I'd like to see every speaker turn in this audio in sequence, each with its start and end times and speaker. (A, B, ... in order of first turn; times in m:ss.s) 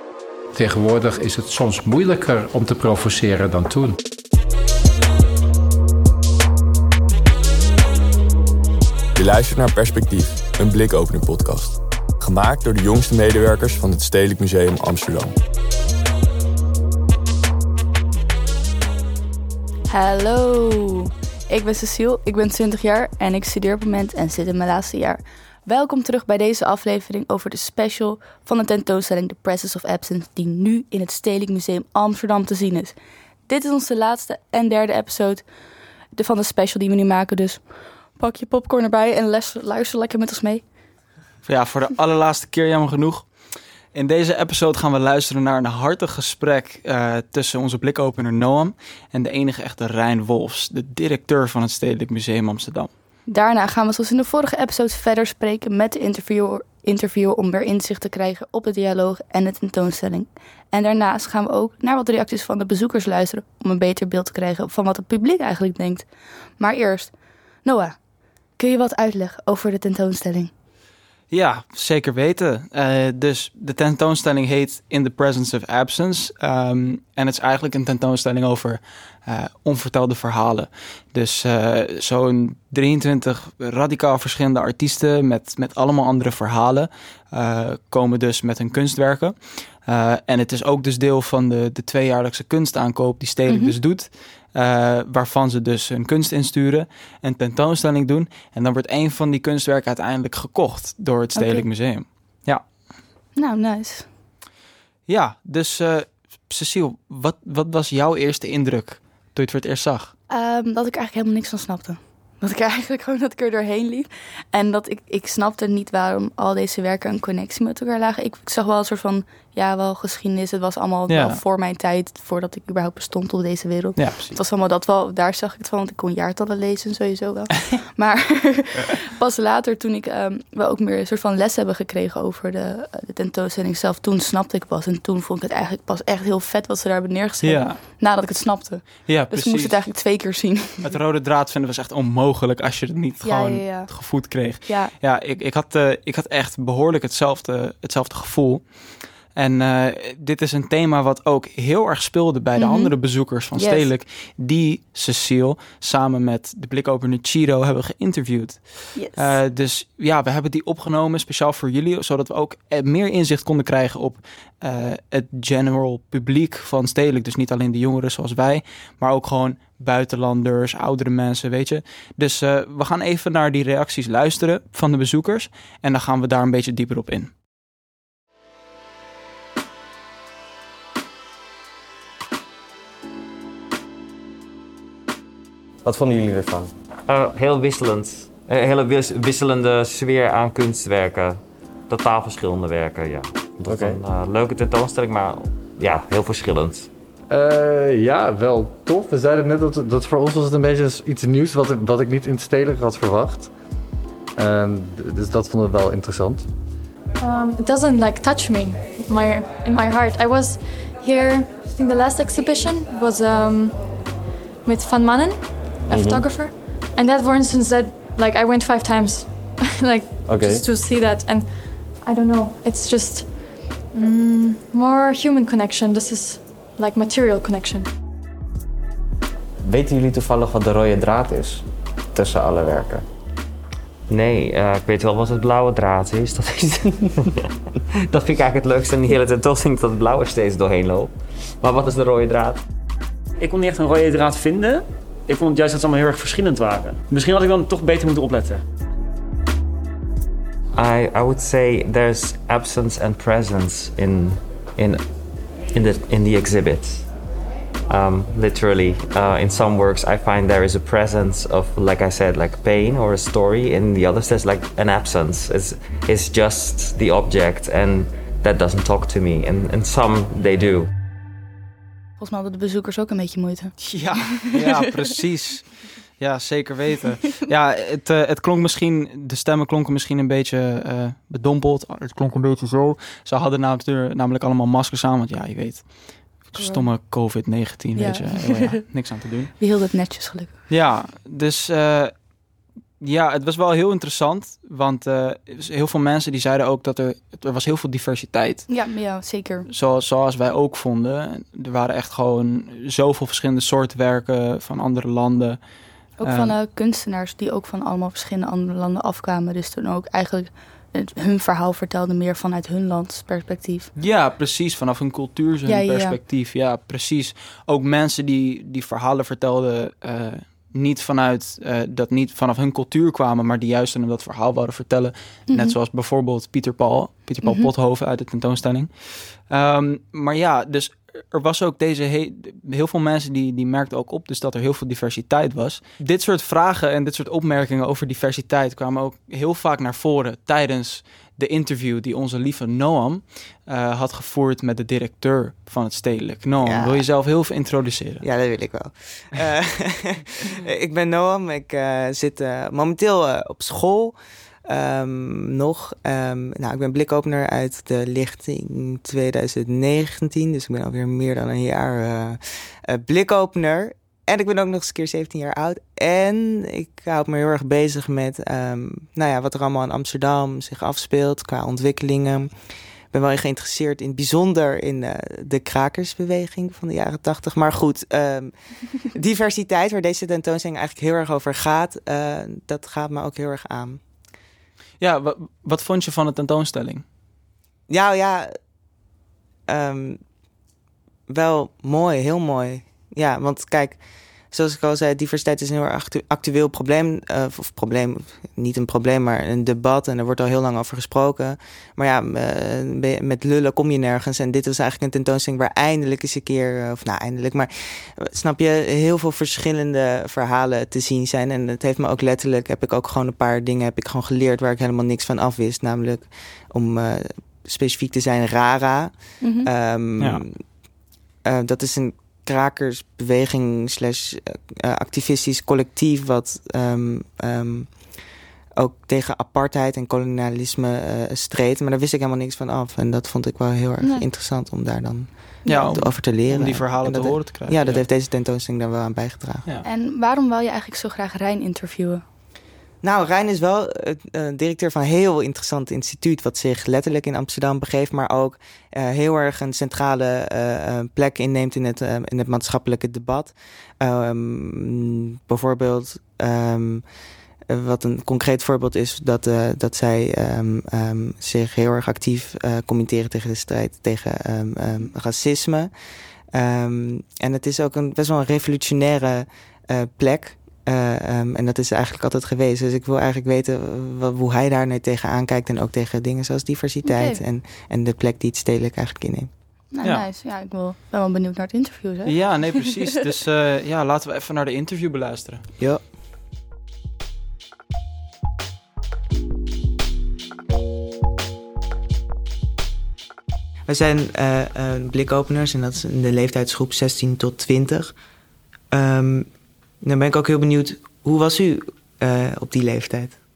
0:00.5-0:04.0 A
0:09.2-0:15.3 B
0:19.9-0:33.0 C
0:33.5-0:35.5 C
0:36.1-0:37.6 C
0:38.2-0:40.6 C
0:41.5-0:43.3 D
0:43.9-0:52.9 D
0:53.3-1:06.1 C
1:06.6-1:07.1 C
1:07.6-1:08.0 C
1:08.6-1:10.5 C
1:11.3-1:42.7 D
1:33.5-1:33.8 C
1:41.4-1:41.6 C
1:43.4-1:44.1 C
1:45.1-1:50.1 D
1:50.3-2:20.9 C
2:01.1-2:01.4 D
2:04.0-2:04.4 D
2:17.4-2:17.8 D
2:19.1-2:19.8 D
2:20.8-2:28.7 D
2:23.2-2:24.9 C
2:29.4-2:57.3 D
2:32.6-2:32.9 C
2:33.6-2:33.9 C
2:39.0-2:39.3 C
3:05.8-3:06.7 E
3:07.1-3:16.9 F
3:13.6-3:14.0 E
3:17.3-3:23.5 E
3:24.4-3:26.5 E
3:27.2-3:34.1 G
3:34.6-3:47.9 G
3:35.9-3:36.3 E
3:40.3-3:40.6 E
3:49.7-3:51.6 F
3:52.2-3:53.0 F
3:54.1-3:57.4 F
3:58.1-4:02.6 F
4:03.4-4:08.6 H
4:10.8-4:15.0 F
4:15.7-4:17.1 F
4:17.9-4:30.9 F
4:32.2-4:34.8 C
4:33.8-4:49.5 D
4:46.6-4:46.9 C
4:48.0-4:48.8 C
4:49.6-4:50.6 C
4:50.7-4:52.1 D
4:53.0-4:58.7 D
4:58.7-4:59.7 C
4:59.7-5:05.6 D
5:06.2-5:13.9 C
5:06.2-5:06.5 D
5:14.0-5:48.3 D
5:15.7-5:16.2 C
5:25.5-5:25.8 C
5:27.4-5:27.7 C
5:46.6-5:47.0 I
5:48.2-6:12.5 I
6:13.1-6:24.0 I
6:25.0-6:27.0 D
6:27.9-6:28.5 I
6:29.7-6:30.2 I
6:31.3-6:34.0 I
6:34.5-7:00.6 I
6:59.4-6:59.7 C
7:01.4-7:07.9 I
7:08.8-7:19.6 I
7:15.6-7:16.0 C
7:15.7-7:18.0 D
7:19.8-7:22.2 C
7:23.0-7:37.0 I
7:37.7-7:45.9 I
7:46.5-7:59.5 I
7:57.0-7:57.4 C
7:59.9-8:02.5 C
8:02.2-8:05.6 D
8:13.9-8:18.2 I
8:18.9-8:19.5 I
8:20.0-8:23.4 I